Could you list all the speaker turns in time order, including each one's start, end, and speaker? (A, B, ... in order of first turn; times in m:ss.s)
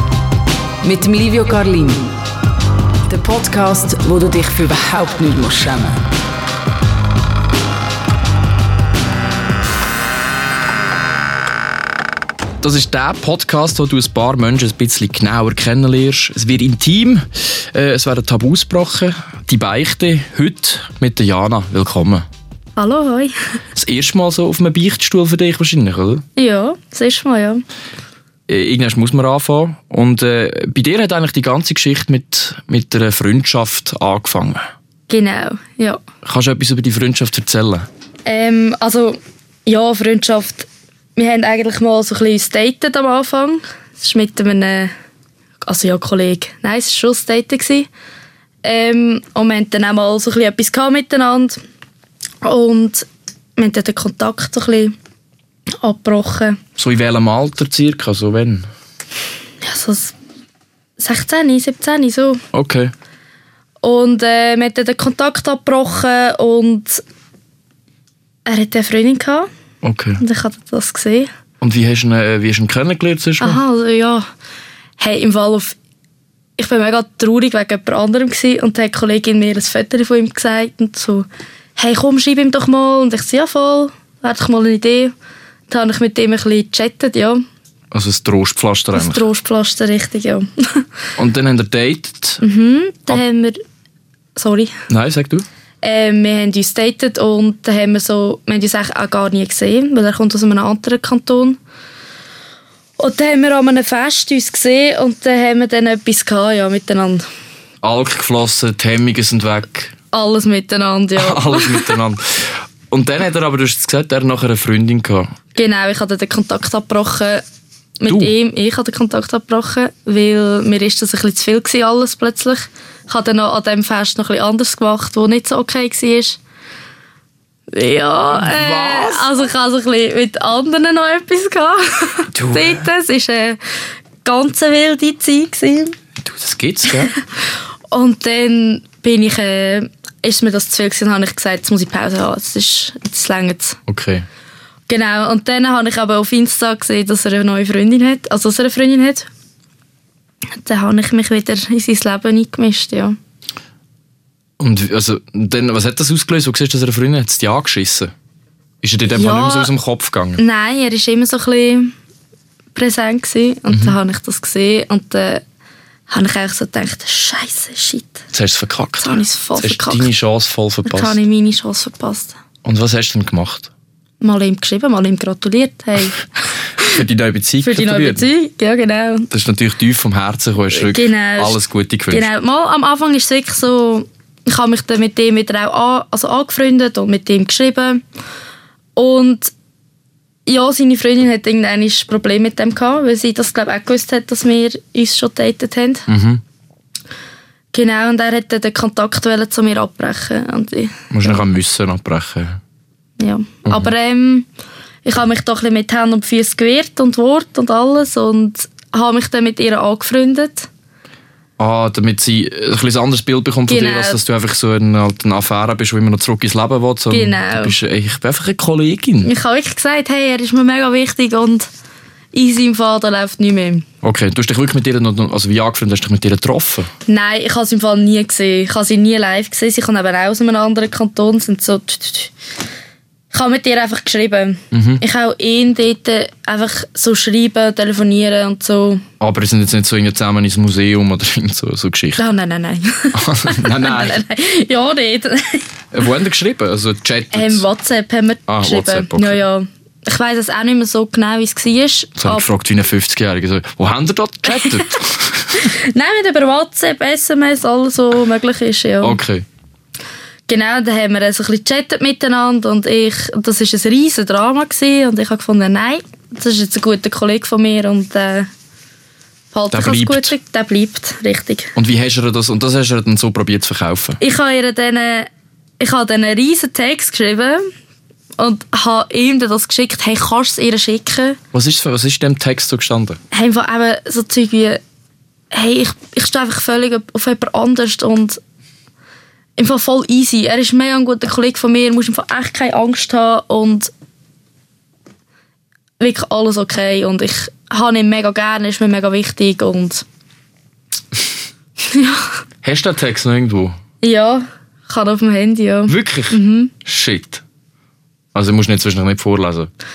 0:00.8-0:02.1 A
0:03.0-0:06.1 A
0:12.6-0:22.2 B
0:22.8-0:23.4 C
0:23.7-0:26.2 B
0:26.4-0:27.6 C
0:28.5-0:34.6 B
0:35.1-0:36.0 C
0:36.2-0:37.9 B
0:38.2-0:44.9 C
0:45.6-0:47.9 C
0:48.6-0:51.6 C
0:52.4-0:53.0 C
0:53.6-0:54.9 C
0:55.8-0:56.6 C
0:56.8-0:58.7 B
0:59.6-1:00.1 C
1:01.0-1:02.4 C
1:02.5-1:02.9 B
1:03.8-1:07.0 C
1:08.4-1:09.5 C
1:09.8-1:10.2 B
1:10.2-1:11.3 C
1:11.6-1:13.6 B
1:13.4-1:14.2 C
1:15.0-1:15.8 C
1:16.6-1:25.1 C
1:25.7-1:27.4 C
1:27.9-1:29.3 B
1:28.9-1:30.8 C
1:31.2-1:32.4 B
1:32.4-1:33.6 C
1:34.4-1:34.7 C
1:34.9-1:35.4 B
1:35.8-1:41.6 C
1:43.0-1:47.2 C
1:47.8-1:49.9 B
1:50.1-1:52.0 C
1:51.2-1:55.3 B
1:55.5-1:57.4 C
1:58.0-2:06.4 C
1:58.1-1:58.3 B
2:07.7-2:13.6 C
2:08.3-2:09.3 B
2:12.3-2:12.8 B
2:14.2-2:16.0 C
2:16.2-2:17.1 B
2:17.9-2:23.8 C
2:23.9-2:24.2 B
2:24.9-2:29.3 C
2:30.6-2:33.2 C
2:34.6-2:38.1 B
2:38.8-2:40.4 B
2:39.1-2:39.7 C
2:40.4-2:41.9 C
2:42.7-2:45.4 C
2:43.7-2:44.0 B
2:46.1-2:48.2 C
2:48.3-2:51.2 B
2:49.0-2:50.1 C
2:50.8-2:52.4 C
2:52.6-2:53.7 B
2:54.2-2:56.9 C
2:56.8-2:58.2 B
2:57.6-2:59.3 C
2:59.3-3:02.3 B
3:00.7-3:01.6 C
3:02.1-3:08.0 C
3:09.0-3:09.5 C
3:10.4-3:16.1 C
3:16.1-3:16.4 B
3:17.7-3:21.4 C
3:21.1-3:22.6 B
3:23.2-3:24.5 C
3:23.6-3:23.9 B
3:25.0-3:30.7 C
3:31.6-3:39.3 B
3:33.7-3:34.2 C
3:37.1-3:37.8 C
3:39.2-3:41.7 C
3:42.3-3:43.8 C
3:44.0-3:46.9 B
3:47.1-3:52.3 C
3:53.3-3:59.0 C
3:54.7-3:55.0 B
3:59.2-4:02.2 B
4:02.2-4:05.7 C
4:03.1-4:04.2 B
4:05.9-4:07.6 B
4:07.3-4:12.4 C
4:08.5-4:09.4 B
4:12.2-4:15.7 B
4:14.5-4:14.9 C
4:15.5-4:19.2 C
4:19.0-4:19.4 B
4:20.5-4:28.5 C
4:29.5-4:31.7 C
4:29.7-4:30.3 B
4:31.8-4:34.2 B
4:34.2-4:37.6 C
4:38.4-4:41.4 C
4:41.5-4:43.2 B
4:43.3-4:44.8 C
4:45.5-4:48.4 C
4:49.6-4:53.9 C
4:56.0-5:00.0 C
5:01.8-5:02.3 C
5:02.6-5:03.8 B
5:04.0-5:06.7 C
5:05.9-5:07.4 B
5:08.3-5:09.7 B